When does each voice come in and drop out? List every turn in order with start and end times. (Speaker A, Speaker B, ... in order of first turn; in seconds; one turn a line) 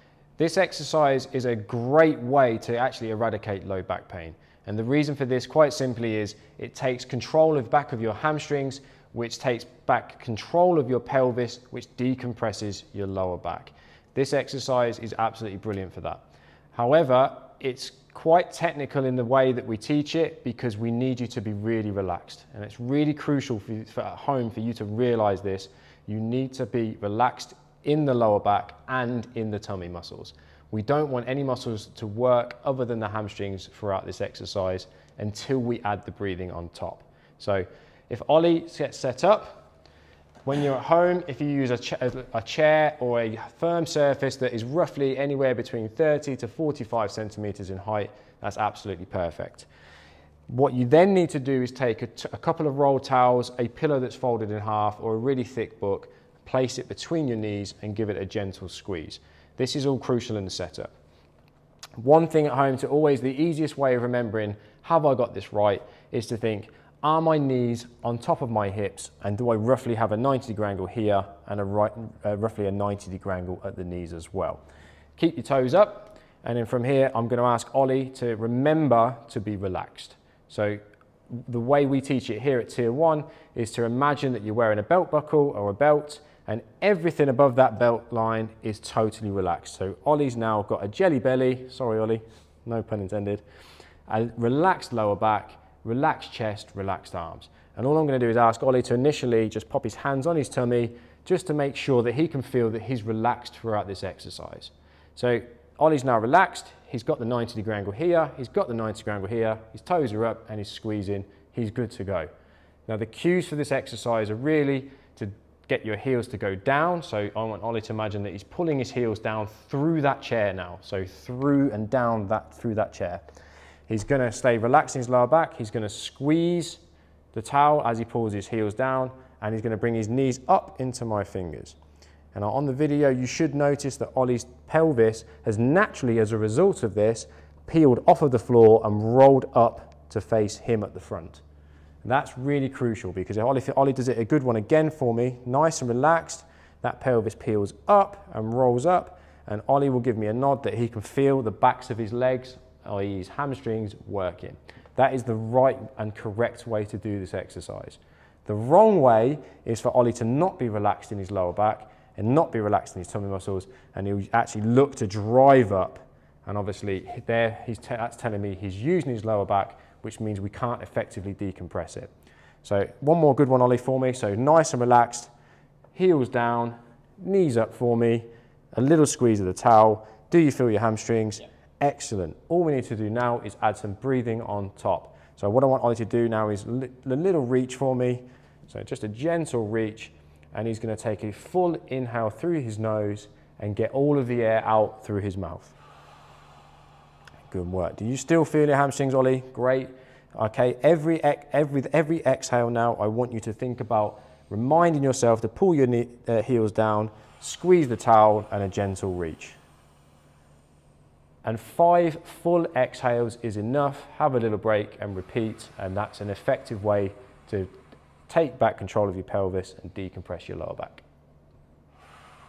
Speaker A: 0.4-16.2
Speaker A: 16.7-39.6
Speaker A: 40.5-49.7
Speaker A: 50.5-60.9
Speaker A: 62.0-74.6
Speaker A: 75.2-80.8
Speaker A: 81.3-93.4
Speaker A: 94.1-112.3
Speaker A: 112.9-123.2
Speaker A: 123.9-126.8
Speaker A: 127.3-131.8
Speaker A: 132.3-141.4
Speaker A: 142.0-172.1
Speaker A: 172.6-175.3
Speaker A: 175.9-195.8
Speaker A: 197.5-209.6
Speaker A: 211.4-217.7
Speaker A: 218.3-221.0